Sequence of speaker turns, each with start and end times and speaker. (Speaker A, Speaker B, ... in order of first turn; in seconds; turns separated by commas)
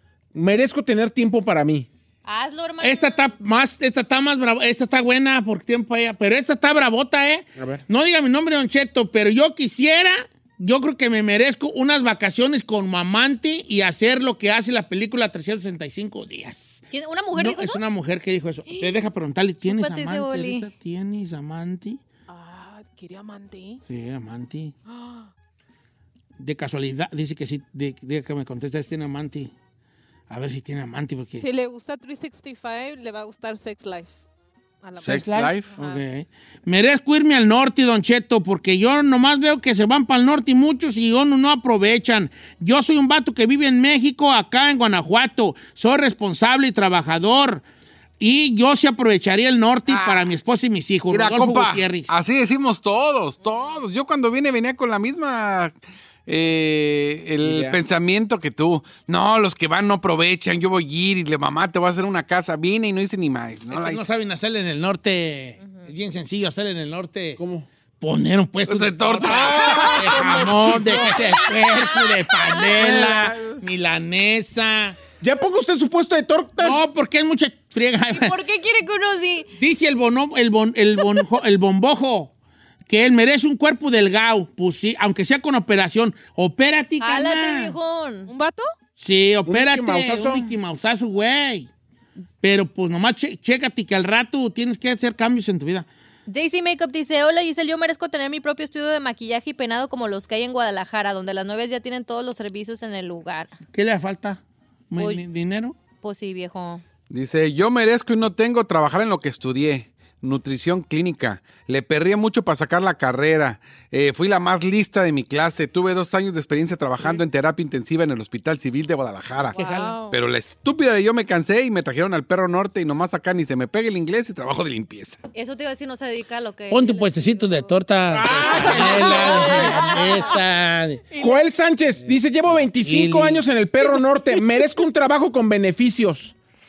Speaker A: 0.3-1.9, Speaker B: 2.2-3.3, Speaker C: 2.8-16.8, Speaker A: 7.6-7.8, Speaker B: 16.9-17.8, Speaker C: 17.3-22.0, Speaker B: 18.7-18.9, Speaker B: 19.6-20.7, Speaker D: 22.3-23.8, Speaker C: 23.9-24.7, Speaker D: 24.9-25.3, Speaker C: 26.4-29.5, Speaker C: 30.3-31.5, Speaker D: 31.4-34.1, Speaker D: 34.8-36.0, Speaker E: 35.0-35.7, Speaker C: 35.0-47.6, Speaker C: 48.2-52.1, Speaker E: 49.9-50.3, Speaker E: 51.1-55.7, Speaker E: 56.3-64.1, Speaker A: 57.4-57.8, Speaker C: 63.7-67.4, Speaker B: 65.6-65.9, Speaker A: 67.4-67.7, Speaker C: 68.0-75.0, Speaker E: 68.7-70.3, Speaker A: 69.2-71.4, Speaker B: 70.7-73.0, Speaker A: 72.8-73.3, Speaker A: 75.2-76.8, Speaker C: 76.6-78.3, Speaker B: 78.1-79.5, Speaker C: 79.6-82.3, Speaker C: 82.9-87.8, Speaker B: 87.0-88.3, Speaker D: 88.3-88.7, Speaker C: 89.0-91.7, Speaker A: 89.5-90.5, Speaker C: 92.4-95.9, Speaker B: 96.3-103.5, Speaker C: 103.7-105.8, Speaker B: 105.0-105.2, Speaker B: 106.0-106.8, Speaker E: 107.1-125.2, Speaker D: 119.5-120.2, Speaker C: 119.5-120.0, Speaker B: 125.3-129.6, Speaker C: 126.7-131.0, Speaker A: 128.1-129.5, Speaker D: 128.3-130.4, Speaker D: 131.1-131.5, Speaker A: 131.2-136.3, Speaker C: 132.7-133.4